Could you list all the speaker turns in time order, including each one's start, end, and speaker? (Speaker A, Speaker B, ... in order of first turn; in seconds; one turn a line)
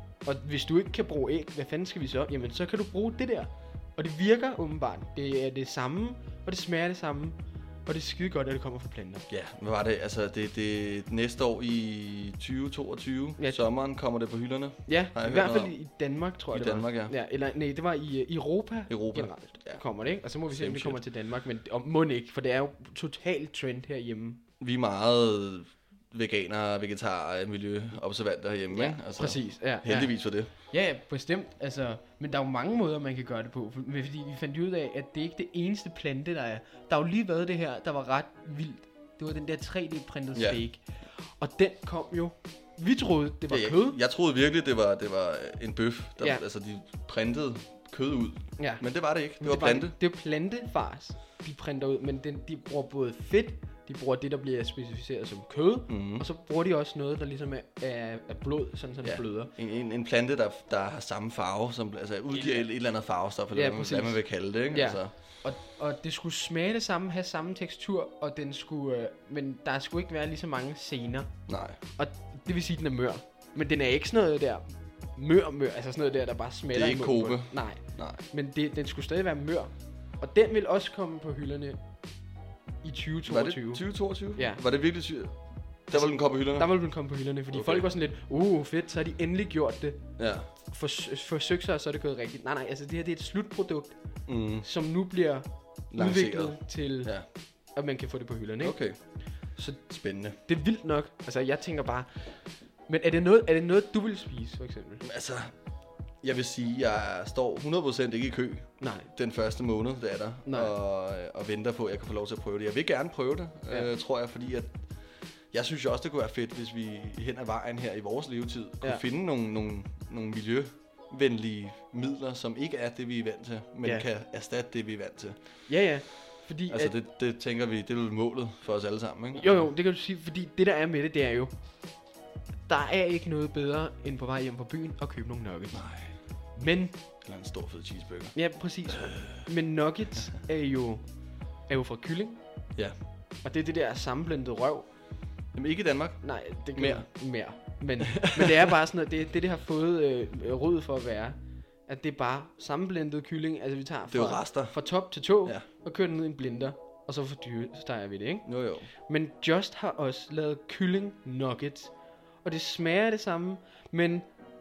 Speaker A: 0.2-9.2
Speaker B: 9.3-15.7
Speaker A: 14.9-24.4
Speaker B: 16.5-17.1
Speaker B: 18.9-19.8
Speaker B: 20.5-21.0
Speaker B: 24.6-30.5
Speaker A: 28.7-44.0
Speaker B: 40.3-40.6
Speaker B: 43.5-50.0
Speaker A: 48.6-48.8
Speaker A: 49.4-59.5
Speaker B: 55.9-56.2
Speaker B: 59.0-65.1
Speaker A: 62.3-62.6
Speaker A: 63.5-71.4
Speaker B: 71.5-71.8
Speaker A: 71.9-81.8
Speaker B: 76.7-78.2
Speaker A: 82.8-83.8
Speaker B: 83.3-85.4
Speaker A: 84.3-84.6
Speaker B: 85.9-86.7
Speaker A: 85.9-94.0
Speaker B: 87.5-87.9
Speaker B: 90.2-90.5
Speaker B: 94.2-94.7
Speaker A: 94.6-97.1
Speaker B: 95.9-97.2
Speaker A: 97.7-98.8
Speaker B: 98.6-99.0
Speaker A: 99.5-99.9
Speaker B: 99.9-100.4
Speaker A: 100.4-105.0
Speaker B: 105.0-105.5
Speaker B: 106.2-114.8
Speaker A: 108.8-109.1
Speaker A: 110.5-110.7
Speaker B: 115.5-125.4
Speaker A: 125.7-126.9
Speaker B: 126.7-129.7
Speaker A: 129.3-131.5
Speaker A: 132.7-135.8
Speaker B: 135.7-136.1
Speaker A: 136.5-136.9
Speaker B: 137.2-138.3
Speaker A: 138.3-141.0
Speaker B: 138.9-139.4
Speaker A: 141.7-142.4
Speaker A: 143.4-144.9
Speaker B: 145.5-147.1
Speaker A: 146.2-161.9
Speaker B: 148.1-148.7
Speaker B: 154.1-154.8
Speaker B: 158.4-158.9
Speaker A: 162.4-164.3